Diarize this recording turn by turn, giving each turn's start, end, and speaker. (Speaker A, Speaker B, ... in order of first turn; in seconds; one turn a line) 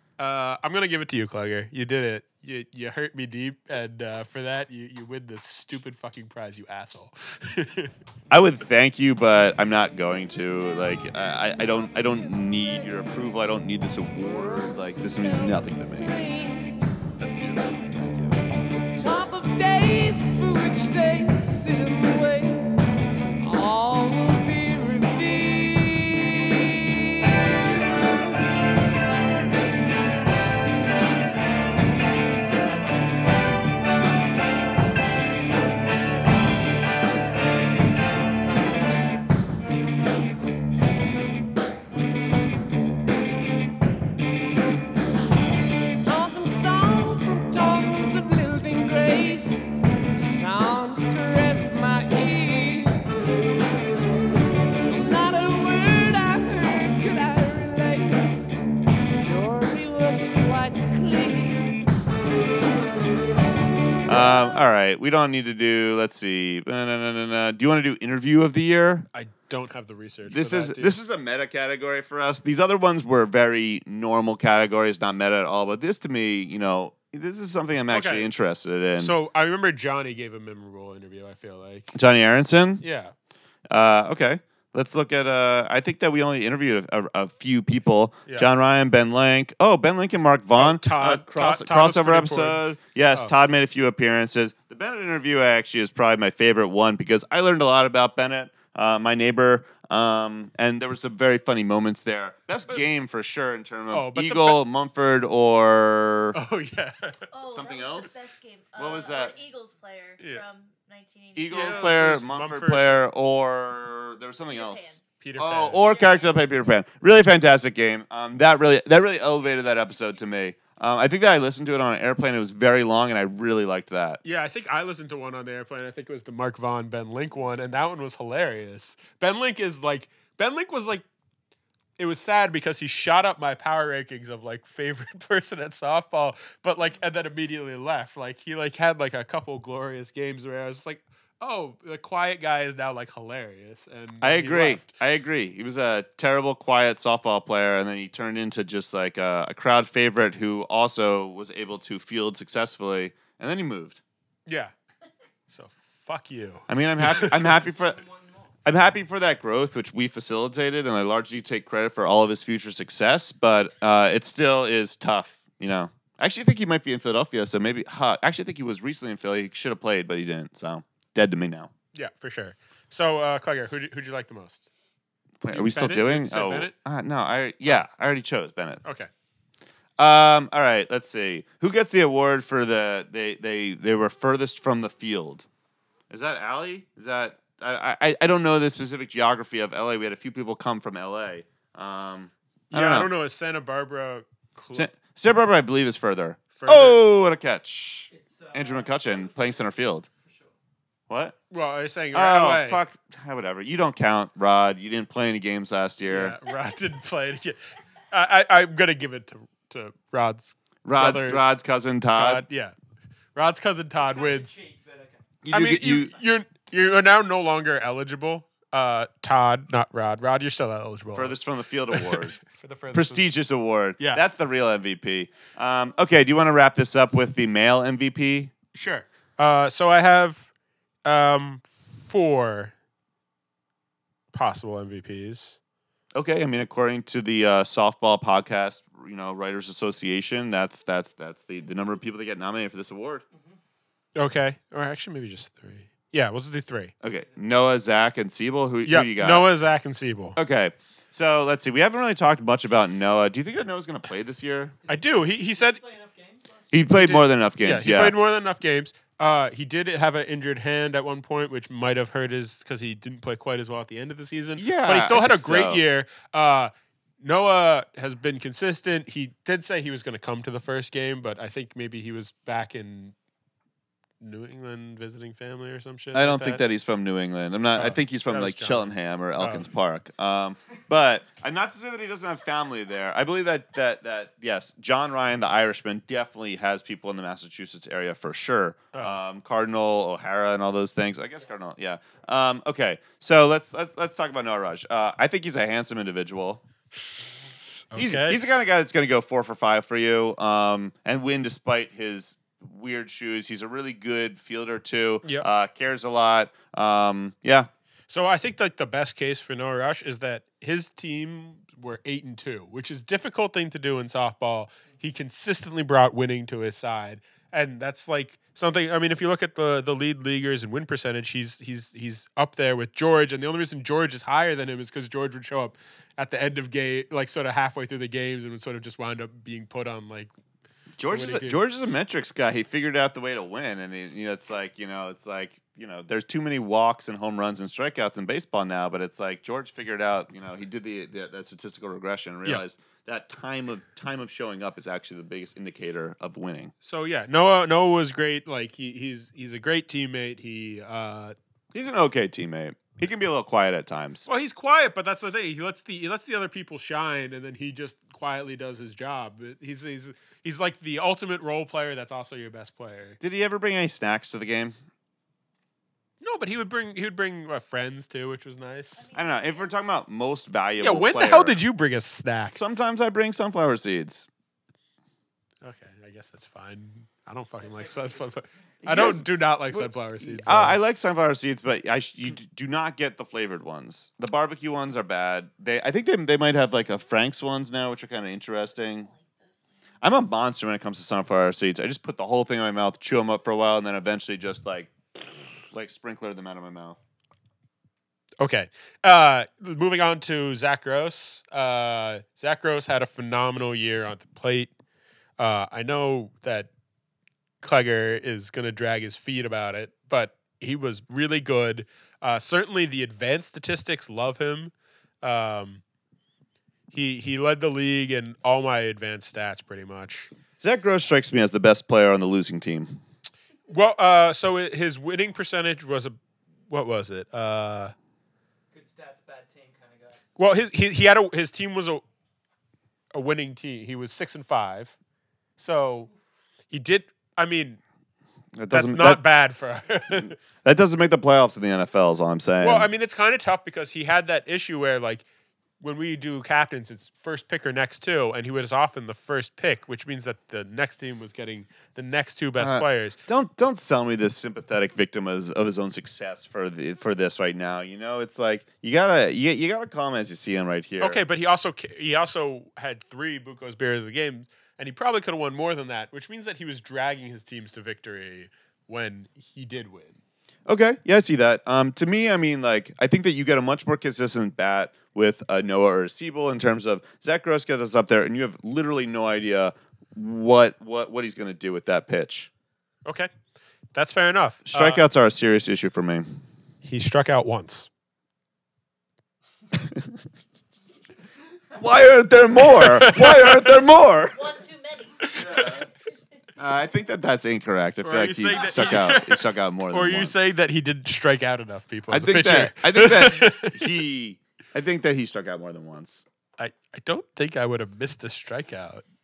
Speaker A: 0.2-7.9
Speaker B: 8.3-16.2
Speaker C: 14.1-16.9
Speaker A: 17.2-17.7
Speaker B: 18.1-18.3
Speaker C: 18.9-22.7
Speaker C: 23.4-28.1
Speaker C: 46.0-49.6
Speaker C: 50.1-53.0
Speaker C: 54.9-58.4
Speaker C: 58.9-61.8
Speaker B: 64.1-69.1
Speaker A: 69.1-71.0
Speaker B: 70.3-79.1
Speaker A: 77.9-78.3
Speaker A: 79.0-81.9
Speaker B: 81.9-82.8
Speaker A: 82.8-83.1
Speaker B: 83.7-106.4
Speaker A: 90.5-92.6
Speaker A: 103.9-104.6
Speaker A: 106.3-107.3
Speaker D: 107.3-112.0
Speaker B: 107.5-108.2
Speaker B: 108.8-109.4
Speaker B: 111.3-124.2
Speaker A: 111.5-113.1
Speaker D: 114.5-115.0
Speaker A: 115.2-115.8
Speaker D: 115.8-116.8
Speaker A: 124.2-131.1
Speaker A: 132.0-144.9
Speaker B: 144.2-154.0
Speaker A: 154.5-154.7
Speaker A: 155.5-157.5
Speaker B: 156.7-158.0
Speaker E: 157.2-158.5
Speaker B: 158.7-171.7
Speaker A: 171.9-174.7
Speaker B: 175.4-178.8
Speaker A: 175.5-176.7
Speaker A: 178.8-179.1
Speaker B: 180.0-185.5
Speaker B: 186.1-193.1
Speaker A: 192.7-194.9
Speaker B: 194.7-200.1
Speaker A: 196.6-197.0
Speaker E: 198.1-200.5
Speaker B: 201.1-201.4
Speaker A: 201.5-202.8
Speaker B: 202.1-206.4
Speaker A: 206.1-207.6
Speaker A: 208.1-211.4
Speaker B: 210.8-212.4
Speaker A: 212.1-212.8
Speaker A: 213.3-214.6
Speaker E: 214.0-215.3
Speaker B: 215.4-216.2
Speaker A: 215.5-221.4
Speaker B: 221.2-222.4
Speaker A: 221.9-223.3
Speaker B: 222.9-228.5
Speaker A: 228.8-230.5
Speaker A: 231.1-232.7
Speaker A: 234.3-235.6
Speaker B: 236.1-243.2
Speaker E: 243.3-243.6
Speaker A: 244.2-246.9
Speaker B: 247.0-249.5
Speaker E: 247.0-247.5
Speaker A: 248.9-250.4
Speaker B: 250.4-254.8
Speaker E: 254.8-256.9
Speaker A: 254.9-255.8
Speaker B: 256.7-258.1
Speaker A: 256.9-273.1
Speaker B: 264.6-265.8
Speaker A: 274.2-276.6
Speaker B: 276.1-296.6
Speaker A: 277.7-279.7
Speaker A: 288.9-289.2
Speaker E: 291.4-292.2
Speaker A: 297.9-298.4
Speaker B: 297.9-307.7
Speaker A: 308.1-330.3
Speaker B: 331.0-346.7
Speaker A: 331.1-331.6
Speaker A: 346.8-351.4
Speaker B: 351.7-354.3
Speaker A: 354.3-363.2
Speaker B: 363.2-364.8
Speaker A: 366.2-369.1
Speaker D: 369.0-369.8
Speaker B: 369.1-371.6
Speaker A: 370.8-372.6
Speaker B: 372.5-374.3
Speaker A: 375.6-380.8
Speaker E: 377.6-378.7
Speaker B: 378.8-389.1
Speaker D: 388.9-389.8
Speaker B: 390.0-394.9
Speaker B: 395.7-397.0
Speaker A: 398.4-404.7
Speaker A: 405.4-406.7
Speaker A: 407.6-415.8
Speaker A: 416.9-420.3
Speaker B: 420.6-423.0
Speaker A: 423.7-426.2
Speaker A: 426.7-427.9
Speaker E: 428.7-430.2
Speaker A: 430.4-432.0
Speaker A: 433.1-434.9
Speaker A: 435.6-436.1
Speaker A: 436.7-437.8
Speaker B: 438.6-439.2
Speaker A: 438.7-440.4
Speaker B: 440.1-442.9
Speaker A: 442.6-445.2
Speaker A: 445.8-453.2
Speaker B: 452.6-461.2
Speaker A: 461.0-470.2
Speaker B: 470.7-482.5
Speaker A: 483.9-485.0
Speaker B: 484.7-486.4
Speaker A: 486.8-487.9
Speaker B: 491.8-494.4
Speaker A: 492.6-493.7
Speaker D: 494.3-495.3
Speaker A: 495.2-495.7
Speaker B: 495.4-495.9
Speaker B: 496.6-500.5
Speaker A: 498.0-503.9
Speaker B: 502.1-506.3
Speaker A: 506.6-509.0